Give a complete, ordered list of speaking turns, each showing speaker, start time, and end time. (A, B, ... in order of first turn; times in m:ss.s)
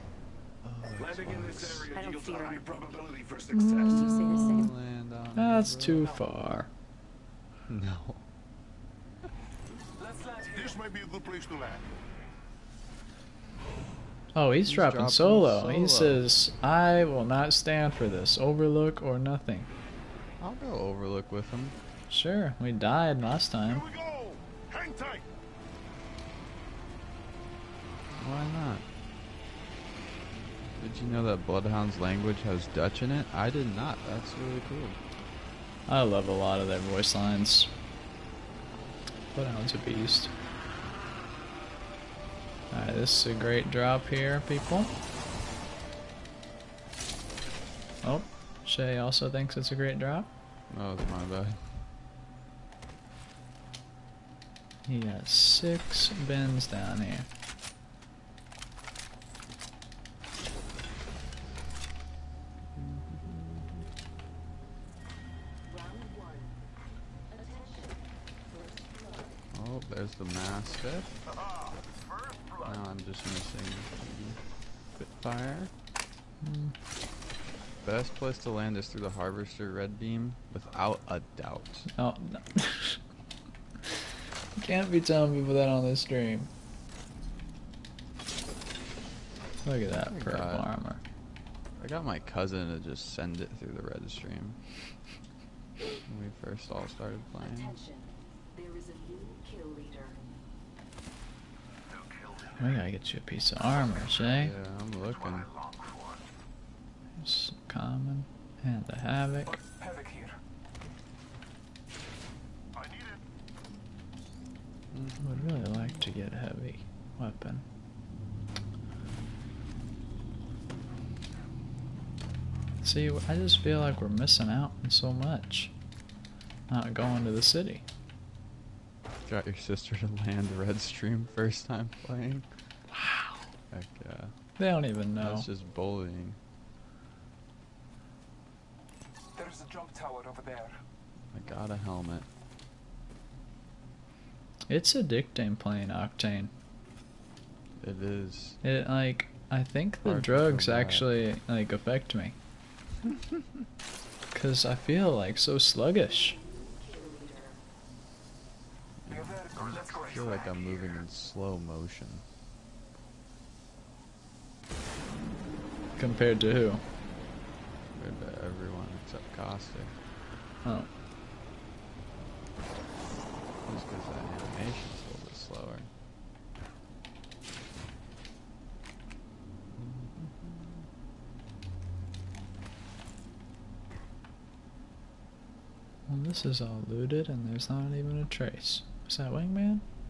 0:00.6-0:01.9 A
0:01.0-0:04.1 B
0:01.8-0:02.8 C
0:03.5-0:04.7 D
0:03.8-0:04.7 C
0:04.2-0:06.4 A
0:05.4-0:06.7 D
0:07.7-0:08.2 A
0:10.0-0:10.8 B
0:10.5-0:11.9 E
0:14.3-0:19.7 D
0:14.6-0:16.2 A
0:20.4-0:21.8 A
0:22.1-0:23.8 D
0:23.7-0:25.3 E
0:28.2-0:28.8 A
0:30.8-0:35.0 A
0:35.9-0:37.7 D
0:39.4-0:40.3 D
0:42.7-0:44.9 D
0:48.0-0:50.3 D
0:50.7-0:51.6 A
0:54.9-0:57.3 D
1:02.8-1:03.8 A
1:05.6-1:06.6 C
1:07.3-1:09.5 C
1:09.5-1:11.1 A
1:11.3-1:12.8 E
1:12.6-1:14.4 A
1:15.0-1:15.7 A
1:16.4-1:16.7 D
1:17.8-1:21.9 A
1:21.9-1:23.0 D
1:24.6-1:26.5 D
1:29.6-1:31.0 D
1:29.9-1:30.7 A
1:31.8-1:34.6 A
1:36.1-1:37.8 A
1:37.4-1:40.2 C
1:42.2-1:42.5 B
1:42.6-1:44.6 D
1:44.2-1:45.5 A
1:45.1-1:46.2 B
1:47.2-1:49.6 D
1:49.5-1:50.4 B
1:52.7-1:53.2 E
1:54.9-1:55.3 A
1:55.2-1:57.6 D
2:02.8-2:05.7 D
2:06.7-2:07.8 D
2:09.3-2:12.5 A
2:12.9-2:13.5 D
2:13.7-2:14.3 A
2:14.6-2:15.5 D
2:15.2-2:16.4 A
2:19.4-2:20.8 B
2:21.3-2:22.3 A
2:24.7-2:26.5 D
2:27.8-2:28.6 A
2:28.6-2:32.4 D
2:30.0-2:31.1 A
2:34.3-2:36.4 D
2:36.1-2:37.6 C
2:39.0-2:42.2 A
2:39.1-2:41.0 B
2:46.0-2:46.8 D
2:48.0-2:50.0 A
2:53.6-2:55.9 A
2:59.7-3:00.9 A
3:06.1-3:09.8 D